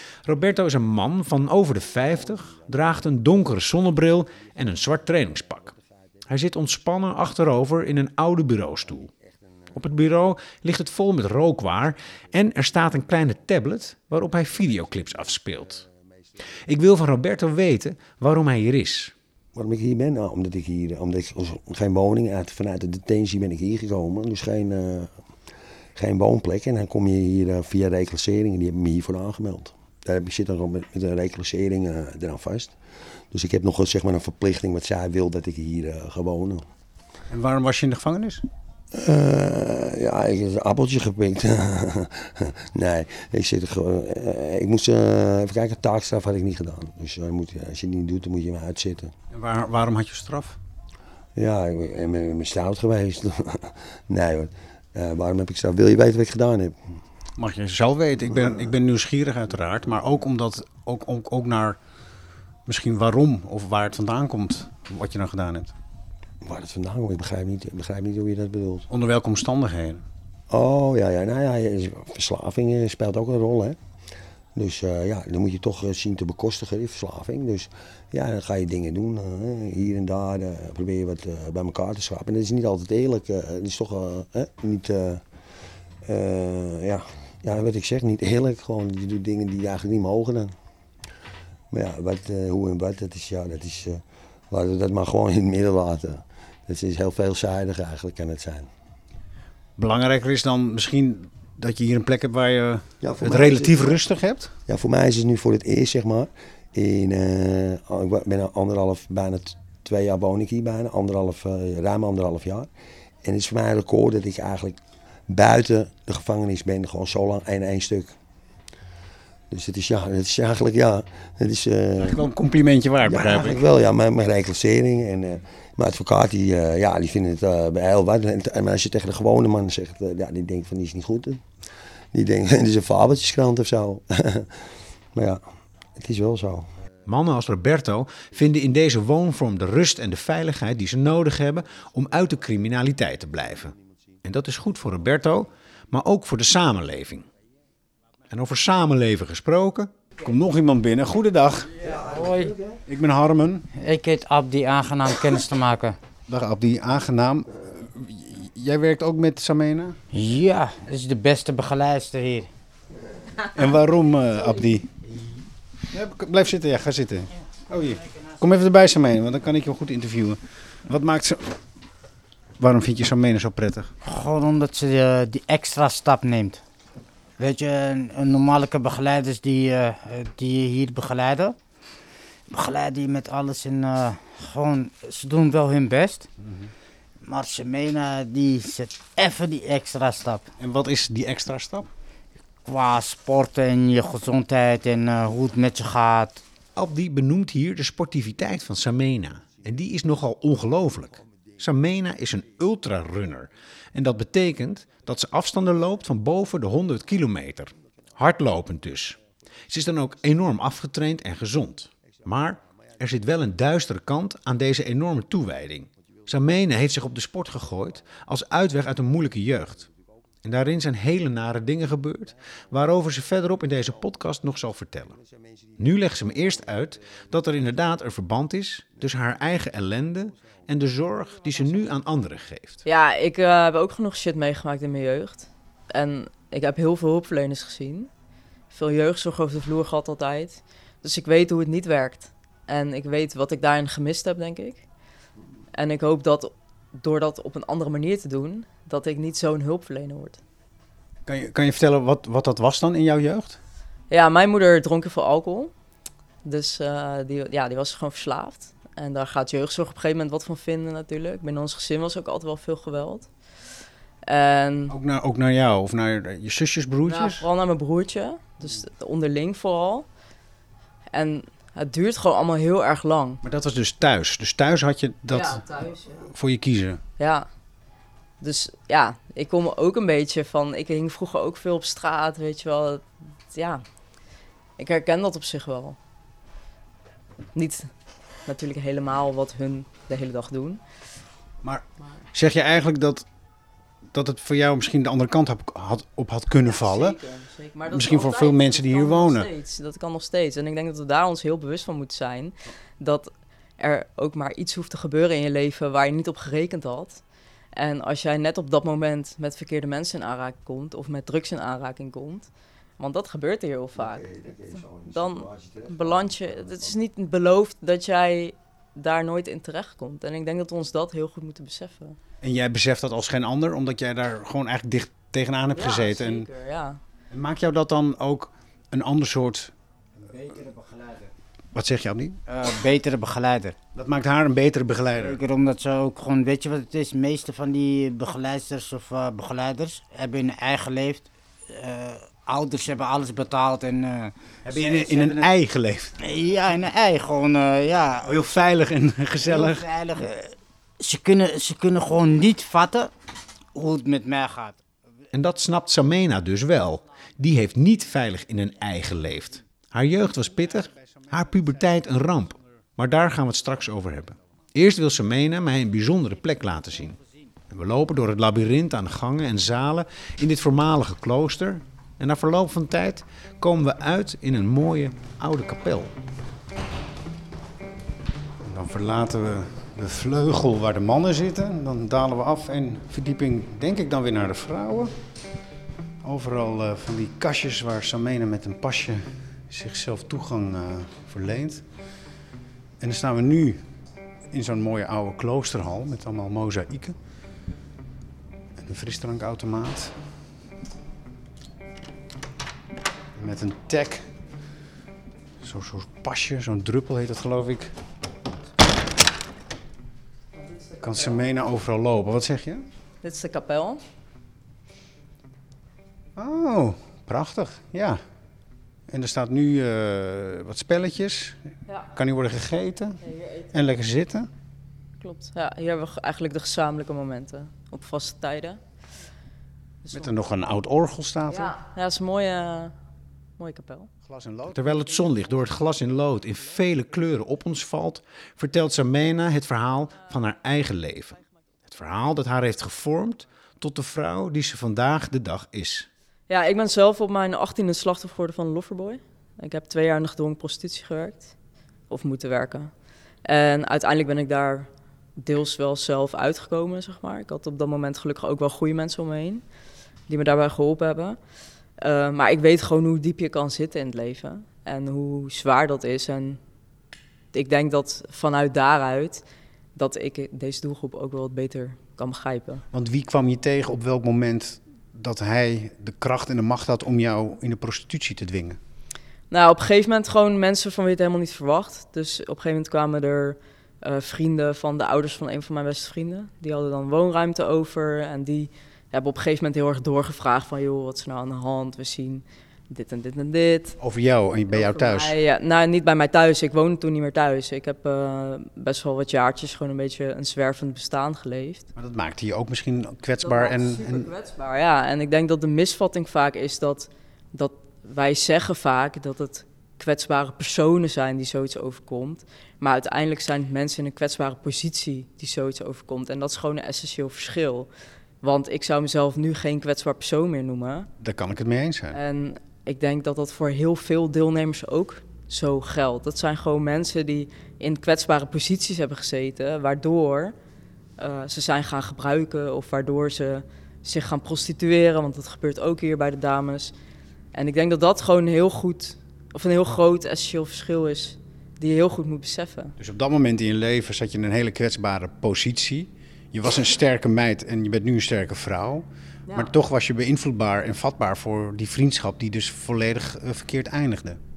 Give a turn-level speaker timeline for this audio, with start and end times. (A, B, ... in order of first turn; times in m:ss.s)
0:00.2-0:05.7 A
0:06.2-0:09.1 A
0:09.7-0:15.8 A
0:16.7-0:19.1 A
0:19.5-0:25.2 B
0:25.9-0:36.7 B
0:37.3-0:38.4 C
0:38.9-0:49.1 B
0:49.3-0:50.6 C
0:51.4-0:56.8 B
0:57.4-1:01.8 C
1:02.6-1:05.7 C
1:06.4-1:08.9 B
1:08.9-1:10.0 C
1:10.5-1:13.8 B
1:14.5-1:25.2 B
1:26.0-1:30.5 B
1:31.7-1:38.7 B
1:39.8-1:44.5 C
1:43.0-1:44.0 B
1:44.7-1:52.7 B
1:53.2-1:58.2 B
1:59.5-2:02.2 B
2:02.0-2:03.6 C
2:03.0-2:11.4 B
2:12.1-2:15.4 B
2:15.9-2:16.7 B
2:17.0-2:27.2 A
2:28.3-2:29.9 A
2:30.2-2:31.8 C
2:31.8-2:32.8 B
2:31.9-2:32.6 D
2:32.8-2:33.7 C
2:33.7-2:36.0 D
2:36.3-2:40.0 C
2:40.1-2:42.5 D
2:43.5-2:44.9 C
2:45.9-2:51.6 C
2:52.6-2:53.9 C
2:54.0-2:56.6 D
2:57.4-3:01.6 D
3:02.5-3:06.3 D
3:06.4-3:06.7 C
3:07.2-3:10.5 D
3:10.6-3:11.9 C
3:12.6-3:16.4 D
3:16.8-3:29.2 A
3:29.7-3:39.9 A
3:40.4-3:45.2 A
3:45.8-3:52.8 A
3:52.8-3:58.1 E
3:58.7-4:04.8 E
4:05.7-4:10.4 E
4:11.2-4:13.6 C
4:14.1-4:15.7 E
4:16.4-4:23.5 E
4:24.2-4:24.9 E
4:24.9-4:27.4 C
4:27.0-4:30.1 E
4:31.1-4:33.4 E
4:33.4-4:35.6 C
4:35.3-4:36.3 E
4:36.2-4:37.0 C
4:37.2-4:37.5 E
4:38.4-4:43.8 E
4:44.8-4:46.0 E
4:47.5-4:47.9 E
4:48.4-4:50.8 E
4:51.6-4:53.2 C
4:54.1-4:57.2 C
4:56.6-5:07.2 E
4:57.9-4:59.5 C
5:07.7-5:12.5 E
5:13.0-5:14.3 E
5:14.0-5:17.0 B
5:15.0-5:22.2 E
5:22.4-5:26.5 C
5:25.7-5:27.0 E
5:27.3-5:29.7 C
5:30.2-5:31.3 D
5:31.7-5:32.4 C
5:32.5-5:33.8 D
5:33.9-5:35.4 C
5:35.2-5:45.5 D
5:44.7-5:46.1 C
5:46.2-5:48.6 D
5:48.2-5:49.8 C
5:49.4-5:53.1 D
5:53.7-5:54.8 D
5:55.3-6:07.2 A
6:00.6-6:02.1 C
6:07.7-6:16.1 A
6:18.6-6:25.1 C
6:26.2-6:31.8 C
6:33.0-6:33.8 C
6:34.5-6:37.2 C
6:38.8-6:40.2 C
6:43.3-6:44.3 C
6:45.6-6:47.9 C
6:50.5-6:51.4 E
6:51.0-6:52.8 C
6:53.2-6:54.0 E
6:56.4-6:58.2 C
6:59.1-7:01.6 C
7:01.9-7:02.1 E
7:02.1-7:03.2 C
7:03.2-7:03.7 E
7:03.7-7:04.5 C
7:05.2-7:08.8 E
7:10.1-7:11.7 C
7:11.5-7:12.9 E
7:13.6-7:14.1 E
7:14.2-7:15.3 C
7:14.7-7:26.1 A
7:26.5-7:31.5 E
7:32.1-7:39.6 E
7:40.3-7:41.4 E
7:42.0-7:46.6 E
7:47.5-7:49.4 E
7:49.9-7:52.8 E
7:52.9-7:58.8 C
7:59.5-8:14.0 E
8:14.0-8:15.3 C
8:14.7-8:21.8 E
8:22.0-8:24.3 C
8:23.4-8:37.9 E
8:38.4-8:41.1 E
8:41.2-8:42.2 C
8:42.1-8:50.5 E
8:51.2-8:56.9 E
8:57.5-9:02.9 E
9:03.0-9:14.4 C